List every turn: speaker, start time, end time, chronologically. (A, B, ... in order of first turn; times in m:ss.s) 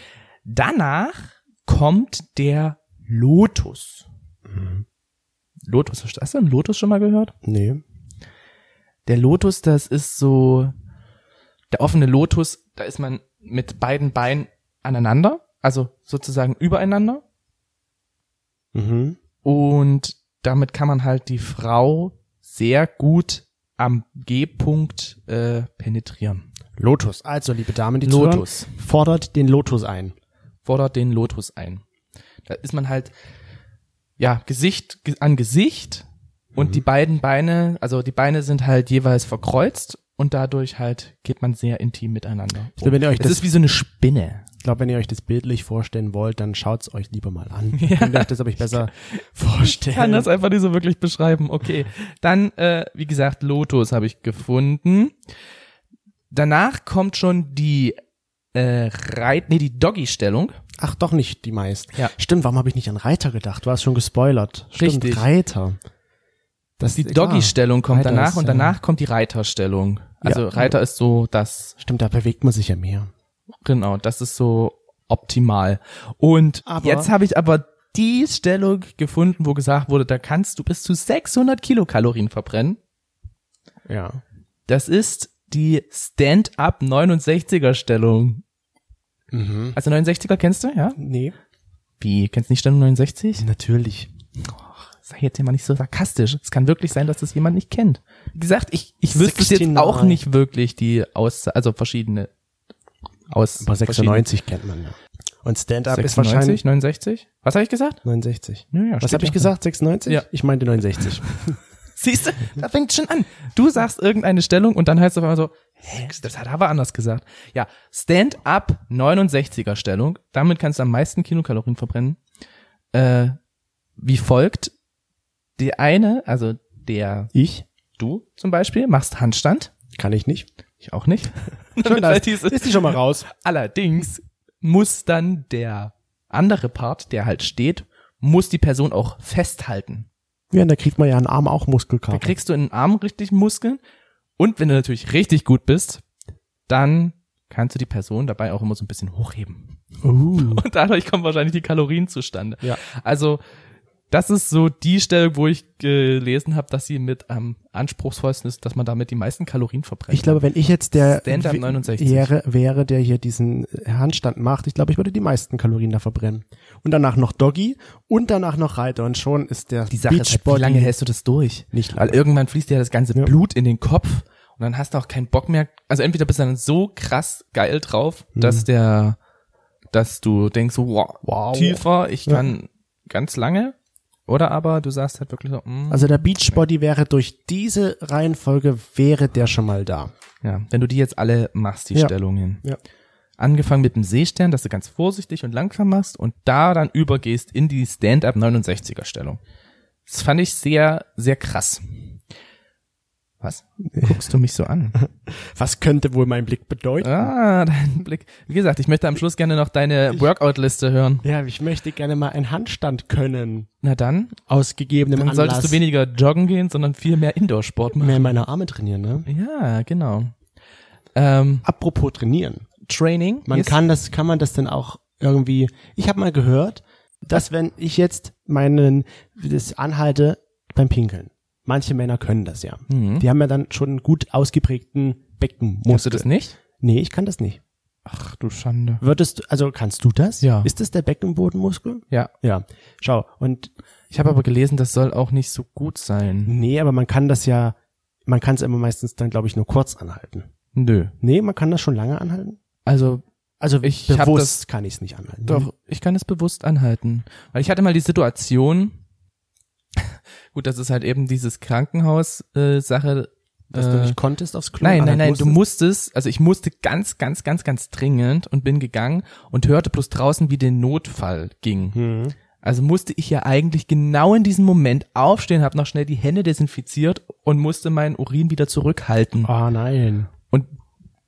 0:00.5-0:04.1 A
0:04.5-0:04.8 B
0:05.6-0:07.3 A
0:07.4-0:07.8 B
0:09.1-0:10.7 A
0:11.7-0:17.2 A
0:18.7-0:19.2 B
0:19.4-0:26.5 A
0:26.8-0:30.1 B
0:28.0-0:28.7 A
0:30.6-0:31.8 A
0:32.5-0:33.1 A
0:34.2-0:44.4 A
0:36.6-0:36.8 B
0:42.8-0:43.5 B
0:44.6-0:50.3 B
0:47.8-0:48.9 A
0:49.6-0:55.2 A
0:56.3-0:58.0 A
0:58.5-1:00.6 A
1:00.8-1:05.8 B
1:04.8-1:05.3 A
1:06.8-1:08.8 B
1:06.9-1:11.8 A
1:10.2-1:10.7 B
1:11.8-1:13.1 B
1:13.6-1:22.8 A
1:16.7-1:17.1 B
1:23.9-1:24.2 B
1:24.7-1:28.4 A
1:29.3-1:29.8 B
1:29.8-1:31.0 A
1:31.0-1:31.4 B
1:32.0-1:33.4 A
1:33.4-1:34.1 B
1:34.4-1:42.3 A
1:39.1-1:40.2 B
1:43.3-1:44.2 A
1:43.6-1:46.6 B
1:45.9-1:48.0 A
1:48.0-1:51.6 B
1:48.7-1:49.5 A
1:52.0-2:02.2 A
2:02.9-2:03.4 A
2:04.0-2:04.7 A
2:05.6-2:07.3 A
2:07.3-2:07.6 B
2:08.0-2:09.7 A
2:10.0-2:10.5 B
2:10.8-2:20.1 A
2:11.8-2:13.3 B
2:20.5-2:22.3 B
2:22.1-2:23.8 A
2:24.4-2:26.0 A
2:26.7-2:29.8 A
2:30.0-2:30.6 B
2:30.4-2:33.4 A
2:34.1-2:40.4 A
2:40.1-2:51.0 B
2:41.0-2:42.3 A
2:49.9-2:59.2 A
2:51.7-2:52.2 B
2:58.4-2:58.6 B
2:59.9-3:03.8 A
3:01.2-3:02.5 B
3:04.3-3:06.6 A
3:05.9-3:10.1 B
3:10.4-3:12.6 A
3:12.0-3:12.8 B
3:13.4-3:19.4 A
3:20.1-3:22.1 A
3:23.4-3:25.0 A
3:23.9-3:24.2 B
3:25.0-3:27.3 B
3:27.0-3:31.2 A
3:31.2-3:33.7 B
3:33.8-3:34.4 A
3:34.5-3:35.8 B
3:35.2-3:38.4 A
3:38.0-3:39.3 B
3:39.3-3:40.4 A
3:41.2-3:41.6 A
3:41.6-3:42.7 B
3:42.8-3:43.8 A
3:43.5-3:57.6 B
3:52.9-3:53.3 A
3:55.9-3:56.6 A
3:58.1-3:59.0 A
3:59.0-4:03.7 B
4:00.4-4:00.7 A
4:04.1-4:06.5 A
4:06.5-4:07.8 B
4:08.3-4:10.5 B
4:10.8-4:11.1 A
4:11.2-4:12.6 B
4:12.9-4:13.2 A
4:13.6-4:15.7 B
4:13.8-4:14.6 A
4:15.5-4:19.0 A
4:20.0-4:24.2 A
4:23.7-4:25.6 B
4:24.8-4:32.0 A
4:31.9-4:32.4 B
4:32.6-4:39.5 A
4:39.4-4:40.3 B